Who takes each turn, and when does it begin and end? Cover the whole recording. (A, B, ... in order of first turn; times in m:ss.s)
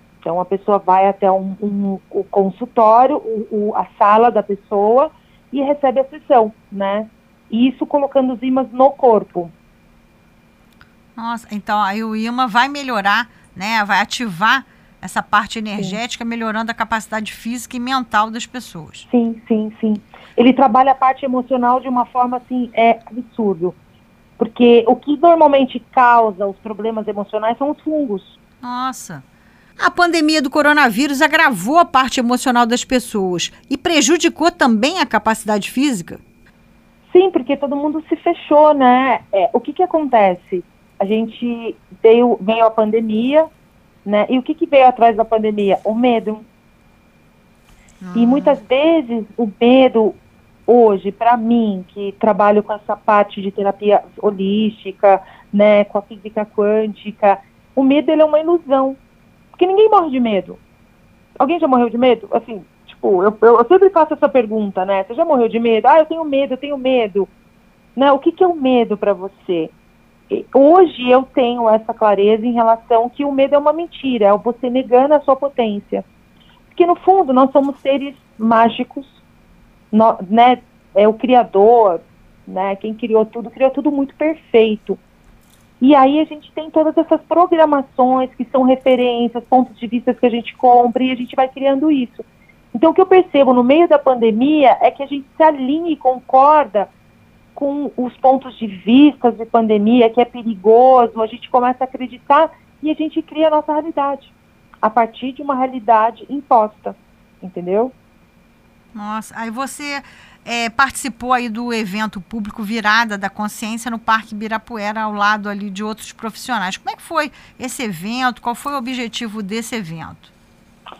0:00.2-0:09.5 A
0:11.2-0:19.1 B
0:19.1-0:23.8 A
0:24.4-0:28.4 A
0:28.6-0:29.2 B
0:29.8-0:36.2 B
0:37.1-0:43.5 A
0:44.0-0:46.4 A
0:48.0-0:48.6 B
0:48.1-0:59.0 A
0:59.6-1:00.6 A
1:01.4-1:07.3 A
1:08.0-1:09.7 A
1:10.3-1:16.0 A
1:16.7-1:19.2 A
1:19.9-1:25.0 A
1:25.8-1:36.9 A
1:37.6-1:47.9 A
1:48.9-2:00.3 B